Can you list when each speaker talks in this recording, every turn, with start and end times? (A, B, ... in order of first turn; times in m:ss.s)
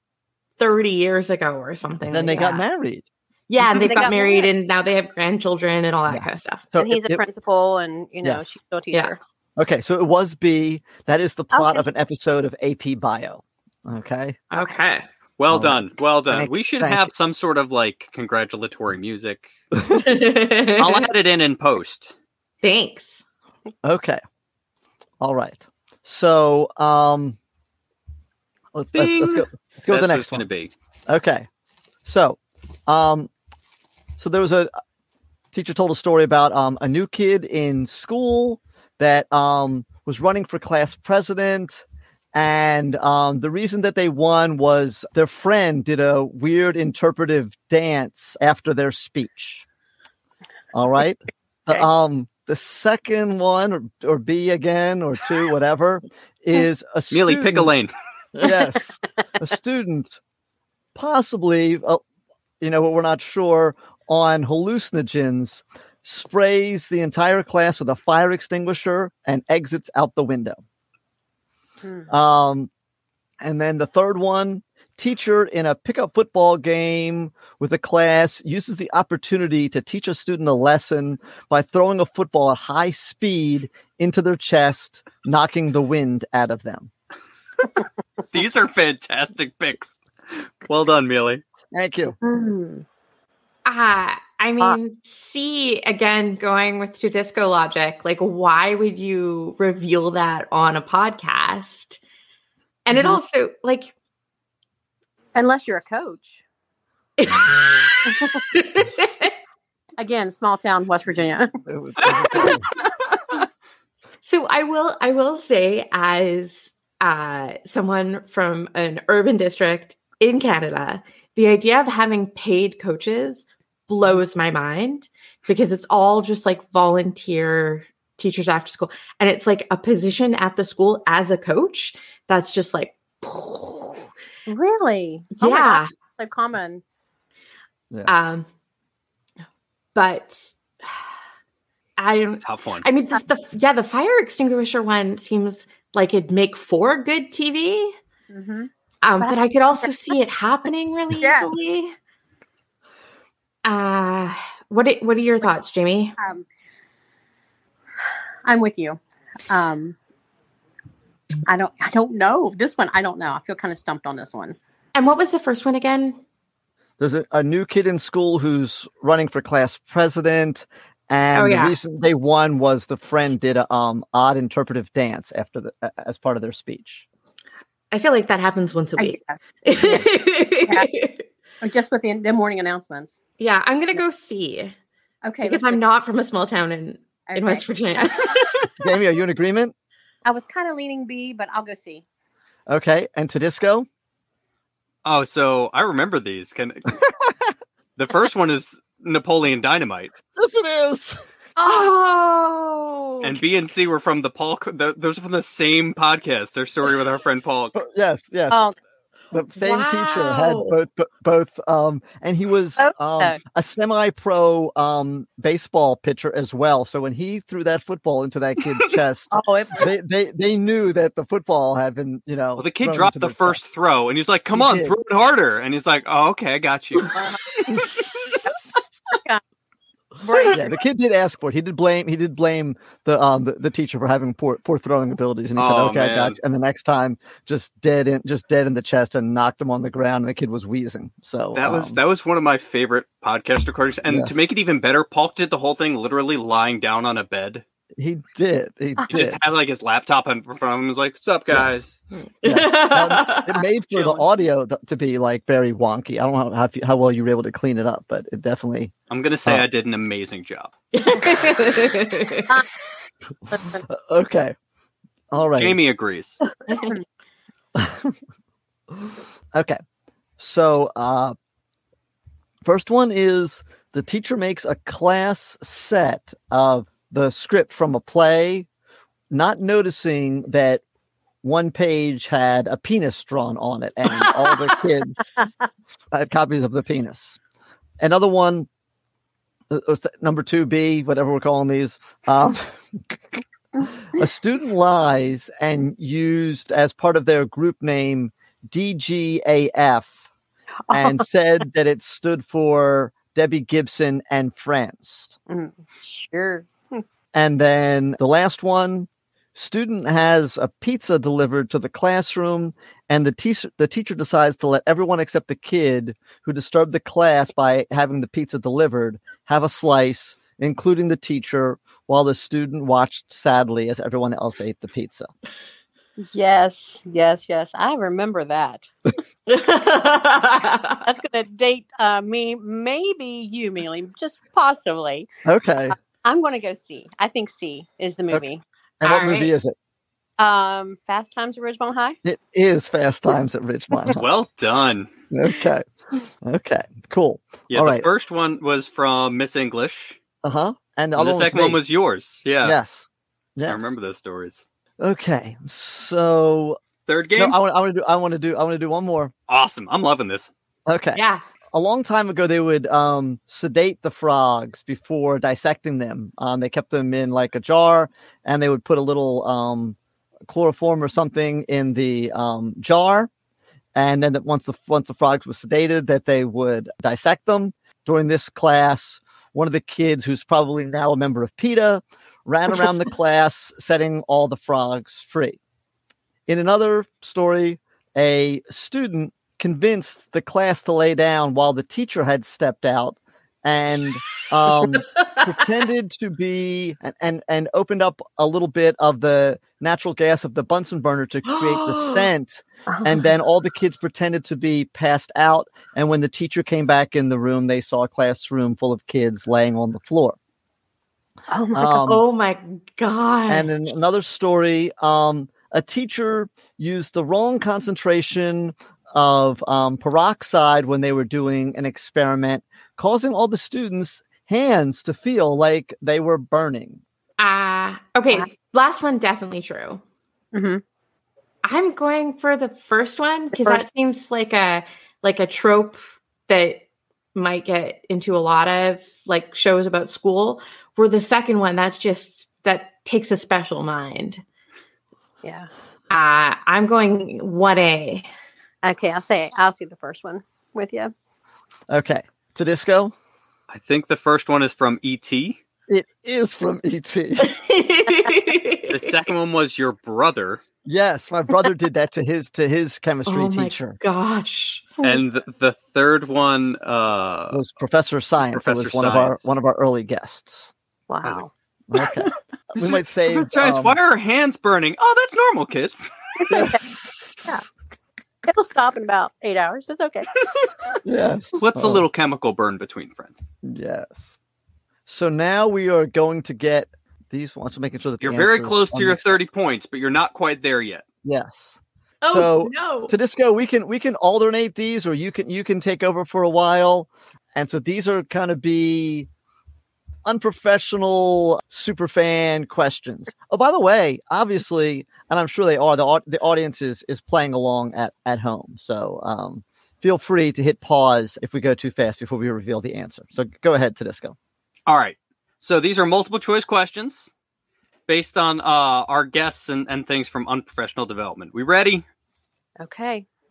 0:00.6-0:02.6 A
0:02.1-0:03.1 B
0:03.5-0:06.6 A
0:03.6-0:04.5 C
0:06.1-0:07.2 B
0:06.8-0:09.2 C
0:08.2-0:08.6 B
0:09.6-0:14.4 B
0:11.5-0:11.8 C
0:14.5-0:15.1 A
0:15.4-0:19.5 D
0:15.5-0:17.1 B
0:19.9-0:21.1 A
0:20.8-0:22.1 D
0:22.6-0:23.2 A
0:23.8-0:24.2 B
0:25.2-0:27.4 B
0:28.7-0:30.5 B
0:28.9-0:30.7 D
0:31.1-0:31.5 B
0:32.0-0:33.3 B
0:34.2-0:34.7 B
0:35.5-0:49.6 B
0:50.7-0:57.7 B
0:57.1-0:57.9 D
0:58.4-1:00.2 B
1:01.0-1:02.0 B
1:02.6-1:10.6 B
1:11.8-1:12.1 C
1:12.1-1:12.7 B
1:13.4-1:26.9 B
1:28.3-1:31.4 D
1:31.7-1:32.2 B
1:32.2-1:32.8 C
1:33.6-1:42.0 A
1:42.9-1:43.9 A
1:45.4-1:46.4 C
1:47.2-1:49.3 A
1:48.1-1:48.4 C
1:50.0-1:51.5 C
1:51.7-1:52.7 B
1:54.2-2:14.1 A
2:14.5-2:16.8 C
2:15.4-2:15.9 A
2:18.1-2:18.5 A
2:20.0-2:20.6 A
2:22.0-2:28.0 A
2:22.4-2:22.8 D
2:28.3-2:28.7 C
2:29.0-2:32.0 A
2:29.2-2:29.9 C
2:31.2-2:31.5 C
2:33.6-2:36.2 A
2:36.2-2:36.4 C
2:38.4-2:40.0 C
2:41.5-2:44.6 C
2:45.0-2:46.2 A
2:47.0-2:57.0 B
2:51.3-2:51.8 A
2:57.9-3:01.2 A
2:59.0-3:00.1 C
3:01.6-3:03.2 C
3:03.4-3:04.8 A
3:05.2-3:05.8 C
3:05.4-3:08.7 A
3:07.3-3:07.7 C
3:08.8-3:09.7 B
3:10.2-3:12.0 C
3:12.7-3:13.9 B
3:15.0-3:17.0 D
3:18.0-3:20.1 D
3:20.3-3:21.2 B
3:21.6-3:23.4 A
3:21.6-3:21.9 C
3:23.2-3:27.8 D
3:27.8-3:28.6 B
3:28.5-3:28.8 C
3:29.3-3:43.6 B
3:29.5-3:30.8 A
3:32.8-3:33.4 C
3:39.3-3:39.9 C
3:42.6-3:47.2 D
3:44.5-3:45.0 B
3:47.1-3:47.4 C
3:47.7-3:48.9 B
3:49.1-3:49.4 C
3:50.2-3:50.8 C
3:50.5-4:02.0 B
3:55.6-3:56.4 D
4:01.5-4:07.6 D
4:04.1-4:04.4 B
4:08.0-4:09.4 B
4:09.1-4:12.0 D
4:12.4-4:13.6 A
4:12.4-4:18.9 B
4:13.9-4:14.2 D
4:19.1-4:20.7 D
4:20.9-4:22.5 A
4:23.5-4:23.8 C
4:23.9-4:24.6 B
4:25.3-4:25.8 B
4:25.6-4:26.4 D
4:26.7-4:26.9 A
4:26.7-4:27.0 C
4:27.8-4:28.2 B
4:29.0-4:29.8 B
4:30.4-4:31.4 B
4:32.6-4:38.7 B
4:39.3-4:40.8 B
4:41.4-4:45.3 B
4:46.1-4:47.4 B
4:48.0-4:48.7 B
4:49.7-4:53.4 B
4:54.1-5:00.2 B
5:00.9-5:05.4 B
5:00.9-5:01.2 C
5:05.5-5:07.0 C
5:07.3-5:25.3 B
5:26.3-5:28.9 C
5:29.5-5:31.0 A
5:31.0-5:35.3 C
5:35.4-5:36.0 B
5:36.2-5:38.6 C
5:39.0-5:39.8 B
5:39.0-5:39.5 A
5:40.4-5:42.2 C
5:42.2-5:44.2 B
5:44.2-5:45.1 D
5:45.3-5:45.8 B
5:46.4-5:48.1 B
5:47.7-5:50.2 D
5:50.4-5:51.8 B
5:51.2-5:52.8 D
5:52.6-5:54.0 B
5:53.7-5:54.6 D
5:55.0-5:56.8 B
5:57.1-5:57.6 D
5:57.4-5:59.3 B
5:59.5-6:00.5 D
6:00.9-6:10.0 B
6:01.2-6:01.4 A
6:10.5-6:13.3 B
6:14.0-6:25.6 B
6:26.5-6:50.4 B
6:41.4-6:42.3 A
6:42.9-6:43.2 C
6:51.5-6:52.0 C
6:51.7-6:52.2 B
6:52.0-6:53.7 A
6:53.5-7:07.0 B
7:07.4-7:10.0 A
7:10.5-7:10.8 C
7:11.6-7:16.8 A
7:13.5-7:13.8 C
7:17.4-7:24.4 A
7:25.4-7:25.7 C
7:26.1-7:28.3 A
7:28.8-7:31.1 C
7:31.9-7:33.2 B
7:33.7-7:35.6 D
7:35.9-7:37.6 B
7:37.4-7:39.1 A
7:38.9-7:40.6 D
7:40.8-7:44.0 B
7:43.3-7:45.2 A
7:45.0-7:47.6 D
7:47.5-7:50.7 B
7:48.5-7:49.6 D
7:51.1-7:51.5 C
7:51.9-7:54.0 B
7:52.8-7:56.1 D
7:56.4-7:56.8 C
7:56.5-7:57.7 B
7:58.5-8:00.3 C
8:01.0-8:02.0 B
8:01.6-8:03.5 D
8:03.6-8:04.4 B
8:05.1-8:09.4 B
8:08.2-8:11.0 D
8:11.2-8:19.3 B
8:12.2-8:13.2 A
8:20.2-8:34.4 B
8:34.9-8:37.3 D
8:38.1-8:42.0 D
8:42.8-8:43.3 C